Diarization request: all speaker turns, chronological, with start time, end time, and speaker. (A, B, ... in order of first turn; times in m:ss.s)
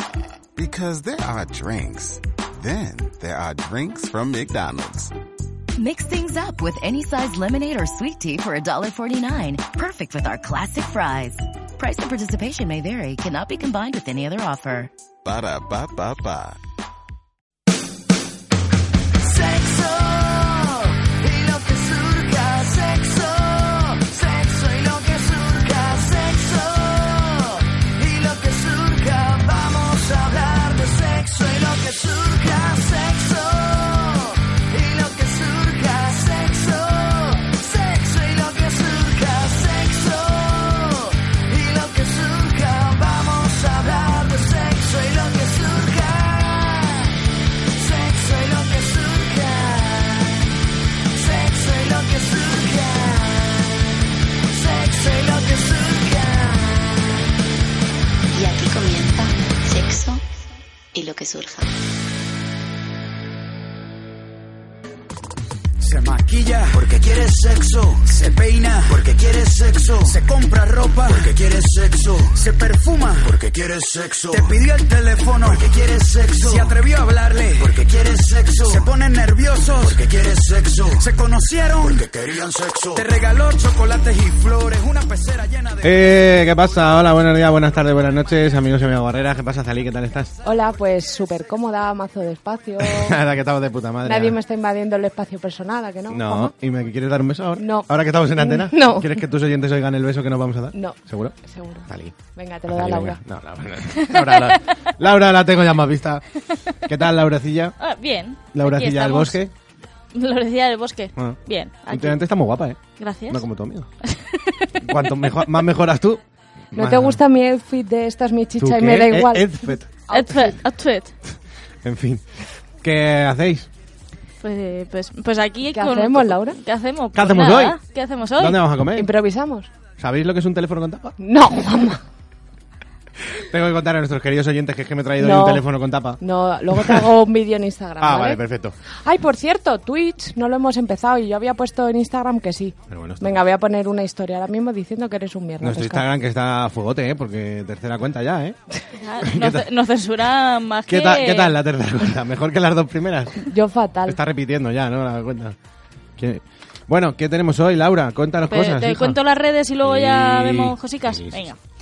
0:00.6-0:05.1 A
0:05.8-0:14.9 B
0:15.2-0:16.6 A
0:19.4-0:20.5 C
0:19.9-0:20.4 D
0:21.0-0:23.2 C
0:21.6-0:23.7 D
0:24.0-0:26.4 C
0:24.4-0:27.0 D
0:28.0-0:33.5 C
0:28.4-0:34.0 D
0:34.8-0:37.1 D
0:34.9-0:40.3 C
0:37.9-0:40.8 D
0:41.5-0:46.8 D
0:41.6-0:46.5 C
0:47.9-0:49.7 C
0:48.0-0:50.0 D
0:51.4-0:52.4 C
0:51.4-0:53.3 D
0:54.7-0:56.4 C
0:54.8-0:55.3 D
0:58.4-1:00.2 E
1:01.0-1:01.7 E
1:05.8-1:26.2 C
1:25.8-1:30.3 F
1:30.4-1:33.2 G
1:32.8-1:34.4 F
1:34.0-1:36.5 G
1:36.1-1:42.2 F
1:37.6-1:39.1 G
1:40.7-1:43.2 G
1:42.7-1:46.2 F
1:44.0-1:44.6 H
1:46.9-1:47.8 F
1:47.8-1:49.4 H
1:48.5-1:49.5 F
1:50.1-1:52.2 H
1:51.2-1:53.9 F
1:53.0-1:53.4 H
1:54.0-1:55.1 H
1:54.8-1:56.2 F
1:56.7-1:57.2 F
1:56.8-2:00.4 G
1:58.6-1:59.9 F
2:00.1-2:01.1 H
2:01.8-2:02.2 F
2:02.8-2:03.7 F
2:04.4-2:08.7 H
2:05.7-2:06.6 G
2:07.1-2:07.8 F
2:08.4-2:09.1 F
2:09.0-2:09.7 G
2:10.0-2:11.2 F
2:11.2-2:12.0 G
2:13.4-2:16.2 F
2:15.2-2:15.6 G
2:16.2-2:18.4 G
2:16.7-2:17.0 F
2:18.0-2:18.8 F
2:19.0-2:26.1 G
2:22.9-2:23.4 F
2:25.6-2:28.6 F
2:29.0-2:31.6 H
2:29.2-2:29.7 F
2:30.9-2:33.4 F
2:33.5-2:34.2 G
2:34.1-2:35.6 F
2:36.2-2:39.2 F
2:38.5-2:41.6 H
2:39.8-2:41.5 F